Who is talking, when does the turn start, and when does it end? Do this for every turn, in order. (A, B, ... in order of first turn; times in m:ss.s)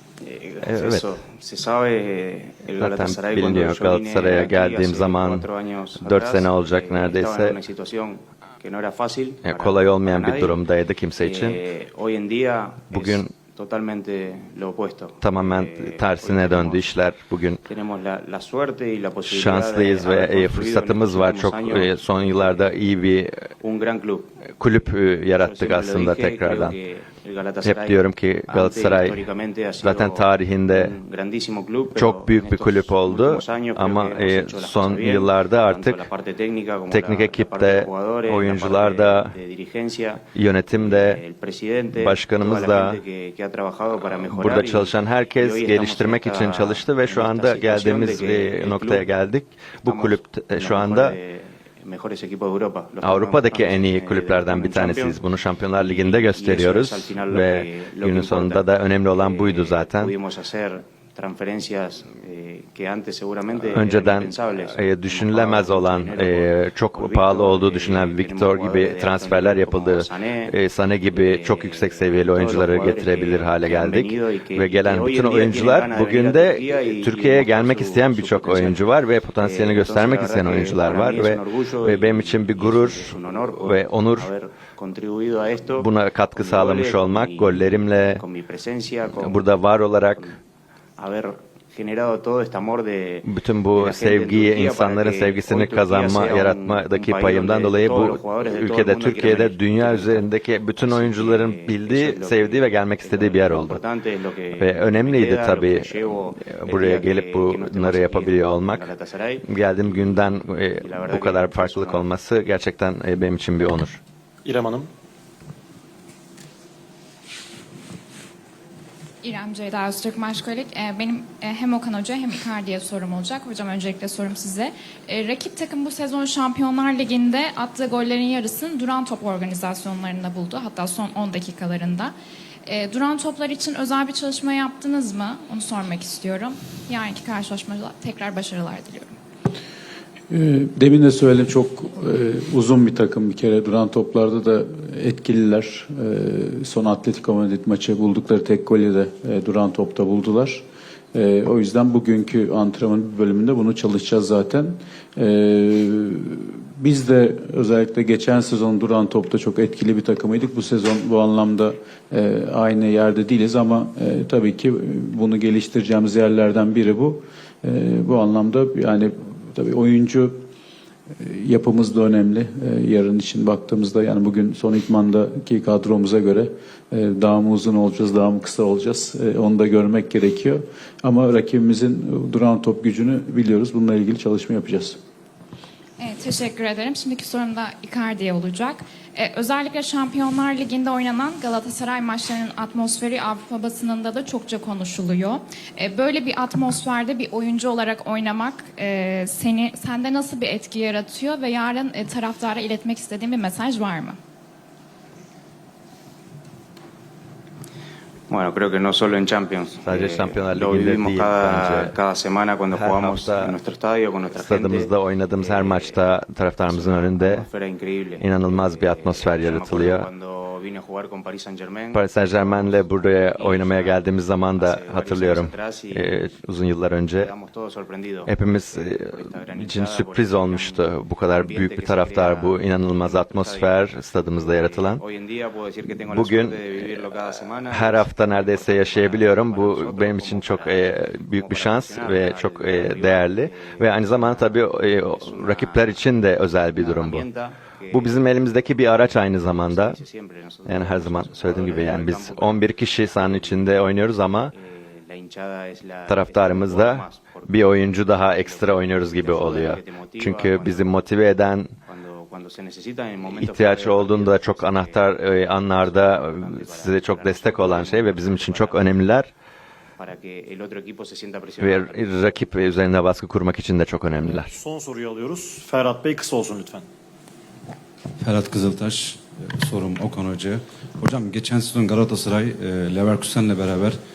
0:00.2-0:10.6 A
0:00.6-0:01.0 B
0:02.8-0:05.4 B
0:06.0-0:07.6 B
0:09.4-0:11.6 B
0:11.2-0:16.9 A
0:12.9-0:13.3 B
0:15.2-0:17.6 B
0:17.6-0:22.7 A
0:19.2-0:23.4 B
0:23.6-0:24.4 A
0:24.5-0:26.8 B
0:25.3-0:49.1 A
0:27.6-0:29.2 B
0:29.8-0:30.9 B
0:32.0-0:36.0 B
0:36.9-0:39.3 B
0:40.3-0:41.2 B
0:41.9-0:43.0 B
0:44.0-0:51.2 B
0:49.8-0:55.2 A
0:53.0-1:00.1 B
0:55.7-1:10.5 A
1:03.6-1:24.3 B
1:11.1-1:18.8 A
1:19.4-1:30.4 A
1:25.8-1:28.2 B
1:29.2-1:30.3 B
1:31.0-1:50.2 A
1:33.2-1:43.8 B
1:44.6-1:48.9 B
1:49.4-1:54.0 B
1:50.7-1:52.1 A
1:54.4-1:54.9 C
1:59.2-2:12.1 D
2:12.6-2:19.1 D
2:20.3-2:50.5 E
2:51.2-3:05.0 E
3:06.0-3:24.2 D
3:28.3-3:36.0 A
3:29.8-3:31.9 B
3:32.7-3:33.6 B
3:34.3-3:37.4 B
3:36.6-3:46.2 A
3:38.2-3:40.0 B
3:41.9-3:47.3 B
3:47.1-4:06.0 A
3:48.3-3:55.0 B
3:56.1-4:07.2 B
4:06.7-4:09.1 A
4:07.9-4:10.0 B
4:09.6-4:13.8 A
4:10.6-4:14.5 B
4:14.5-4:21.0 A
4:16.1-4:21.7 B
4:21.9-4:29.0 A
4:23.3-4:29.3 B
4:30.0-4:32.0 A
4:31.6-4:34.5 B
4:34.5-4:36.9 C
4:38.2-4:44.0 F